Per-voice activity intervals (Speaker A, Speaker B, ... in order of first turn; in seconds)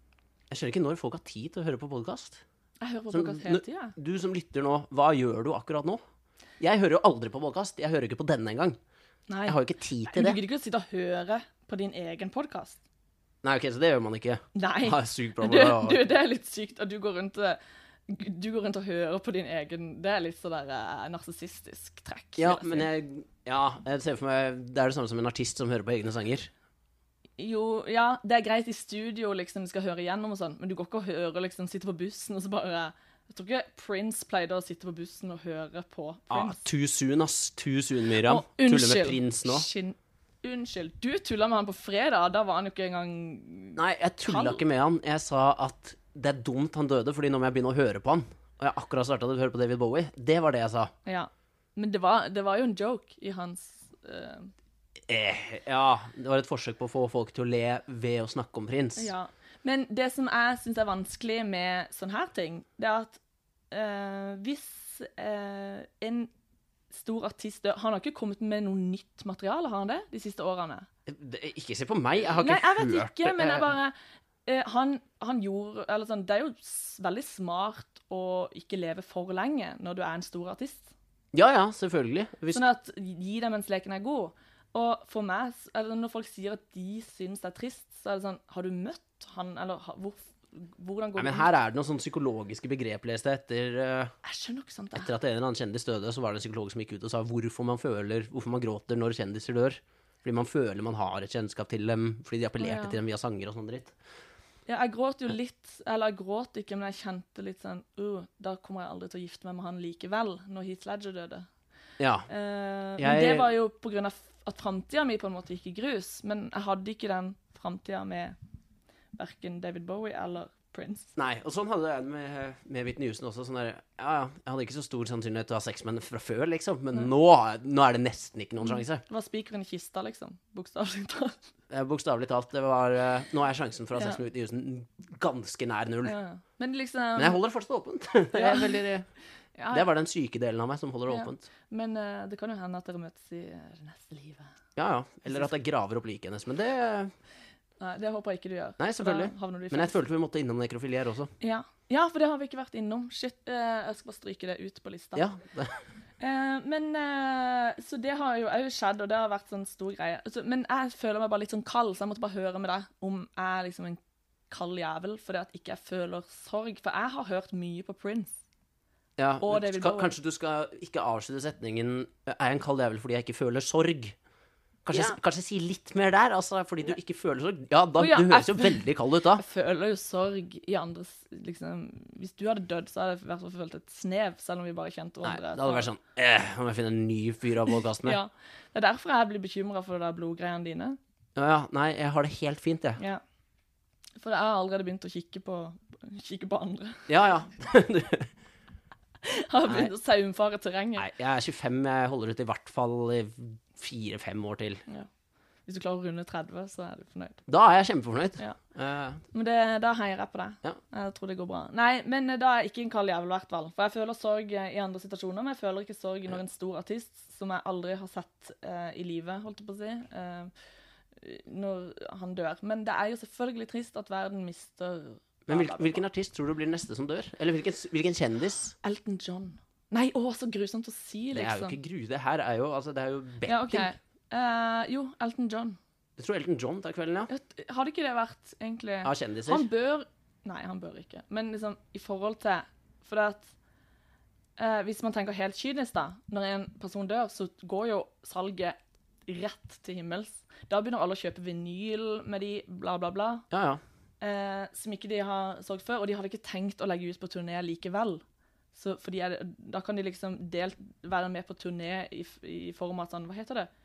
Speaker A: 0.5-2.4, 3.1-6.0, 6.6-8.8, 9.5-10.4, 13.4-16.1, 22.4-26.5, 36.3-39.7, 43.8-50.9, 55.1-59.1, 71.1-73.7, 81.3-82.6, 91.2-94.1, 94.9-103.9, 112.0-112.3, 113.0-113.5, 121.2-129.0, 131.7-136.1, 137.2-139.1, 139.7-141.4, 144.8-147.1, 148.8-151.3, 155.2-155.8, 169.2-174.1, 174.8-179.4, 185.2-188.2, 191.3-193.0, 197.1-198.3, 201.0-204.8, 207.5-209.2, 225.5-228.7, 231.3-233.9, 236.2-237.3, 239.0-239.7, 253.5-253.8
Speaker B: 2.8-3.9, 9.3-9.6, 10.1-12.8, 14.5-22.9, 27.4-36.6, 38.2-44.6, 51.0-54.5, 59.0-63.2, 63.7-66.3, 66.9-70.9, 72.4-80.9, 82.5-91.5, 94.2-95.1, 102.6-103.0, 104.7-111.5, 112.3-118.3, 119.2-121.1, 128.6-131.4, 133.9-134.2, 136.0-137.4, 138.3-138.8, 139.6-139.9, 141.1-144.5, 147.8-150.0, 151.4-155.3, 156.2-168.3, 169.4-170.1, 174.9-175.2, 177.9-178.8, 179.3-185.9, 188.0-191.0, 194.2-197.1, 199.2-201.1, 205.7-207.4, 209.3-220.5, 221.2-226.0, 228.8-231.8, 233.4-235.8, 237.3-243.5, 244.6-253.5, 254.2-258.2, 258.7-263.7